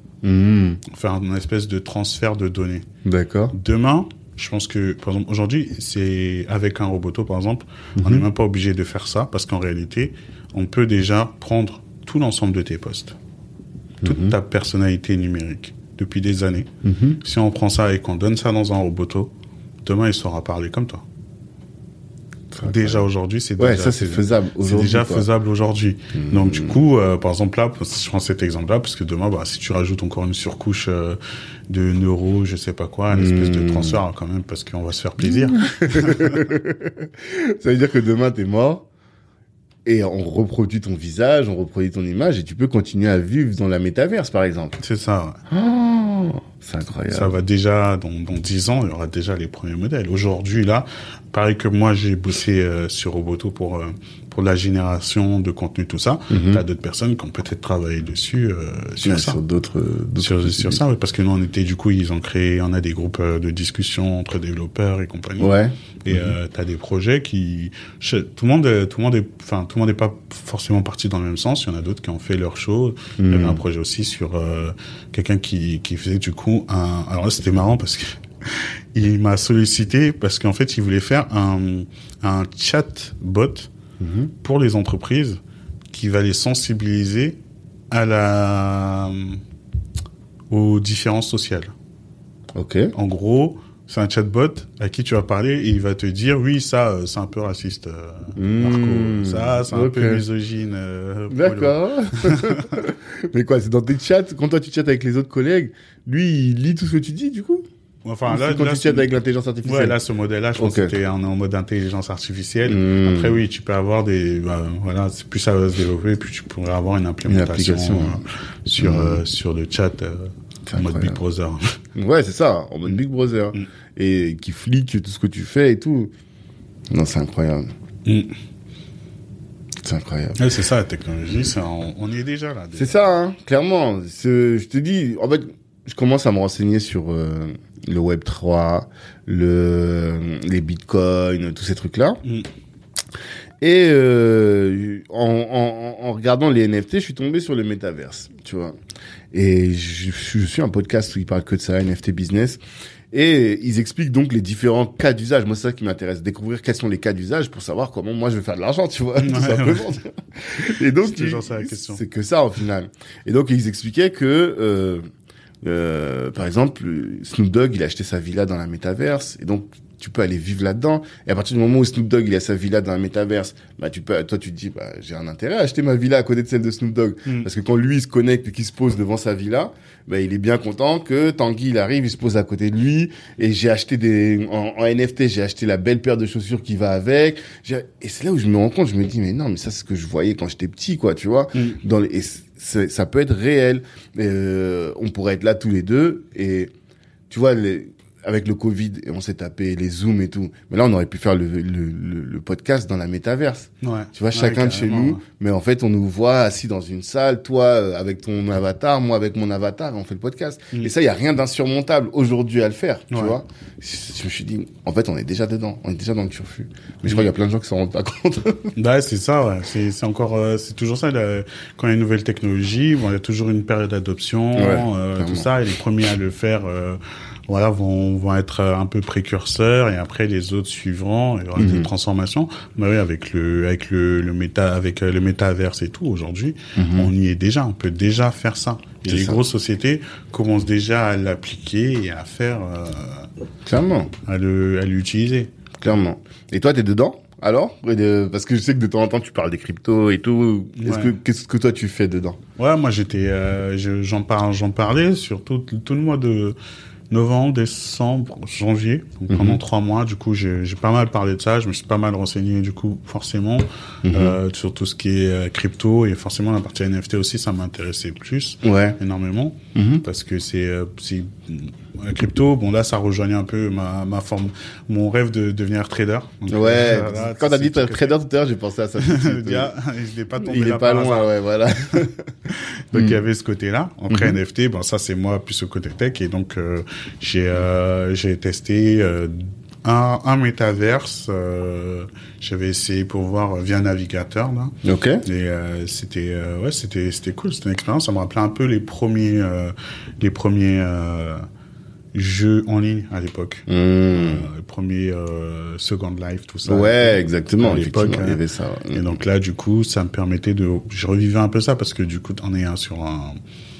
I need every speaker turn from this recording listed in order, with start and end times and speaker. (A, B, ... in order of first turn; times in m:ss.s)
0:00.2-0:00.8 A
0:00.8-0:02.8 B
0:03.0-0:03.5 A
0:03.5-0:13.2 B
0:08.0-0:08.3 A
0:14.0-0:14.4 A
0:14.0-0:21.0 B
0:16.8-0:17.2 A
0:22.5-0:23.0 A
0:22.6-0:36.4 B
0:23.6-0:25.3 A
0:26.1-0:26.8 A
0:33.1-0:34.0 A
0:35.4-0:38.8 A
0:39.8-0:44.8 A
0:44.8-0:45.4 B
0:45.5-0:47.4 A
0:47.1-0:59.4 B
0:56.3-0:56.6 A
0:59.0-1:00.8 A
1:00.2-1:23.7 B
1:05.4-1:06.3 A
1:13.2-1:13.6 A
1:24.0-1:24.3 A
1:24.4-1:25.4 B
1:25.9-1:27.4 B
1:27.9-1:29.4 B
1:30.5-1:31.7 B
1:32.5-1:32.9 A
1:32.9-1:42.7 B
1:38.4-1:40.2 A
1:41.3-1:47.6 A
1:48.0-1:49.1 B
1:48.3-1:49.9 A
1:49.6-2:01.8 B
1:50.6-1:50.9 A
1:52.7-1:53.4 A
1:57.3-1:58.2 A
1:58.8-1:59.2 A
2:00.6-2:01.2 A
2:01.9-2:06.1 A
2:06.9-2:07.7 A
2:08.0-2:08.4 B
2:09.8-2:10.4 A
2:10.4-2:13.0 B
2:12.7-2:22.2 A
2:23.6-2:28.7 A
2:29.3-2:32.6 A
2:33.1-2:45.0 A
2:39.2-2:40.0 B
2:41.0-2:42.0 B
2:45.6-3:16.7 A
3:11.5-3:11.8 B
3:17.3-3:38.7 A
3:23.8-3:25.2 B
3:38.8-4:03.3 B
3:44.6-3:45.5 A
3:51.6-3:51.9 A
3:56.7-3:57.1 A
3:59.1-3:59.4 A
4:03.6-4:04.1 A
4:04.2-4:05.5 B
4:05.8-4:12.4 A
4:10.8-4:11.2 B
4:12.6-4:16.6 B
4:17.1-4:38.1 B
4:19.3-4:19.6 A
4:24.0-4:24.4 A
4:28.6-4:29.0 A
4:29.7-4:30.0 A
4:36.5-4:39.7 A
4:39.0-4:41.3 B
4:40.4-4:42.3 A
4:41.9-5:01.4 B
4:42.9-4:43.2 A
4:44.1-4:44.4 A
4:54.8-4:55.2 A
5:02.1-5:08.4 B
5:03.7-5:04.5 A
5:06.6-5:09.1 A
5:08.9-5:13.4 B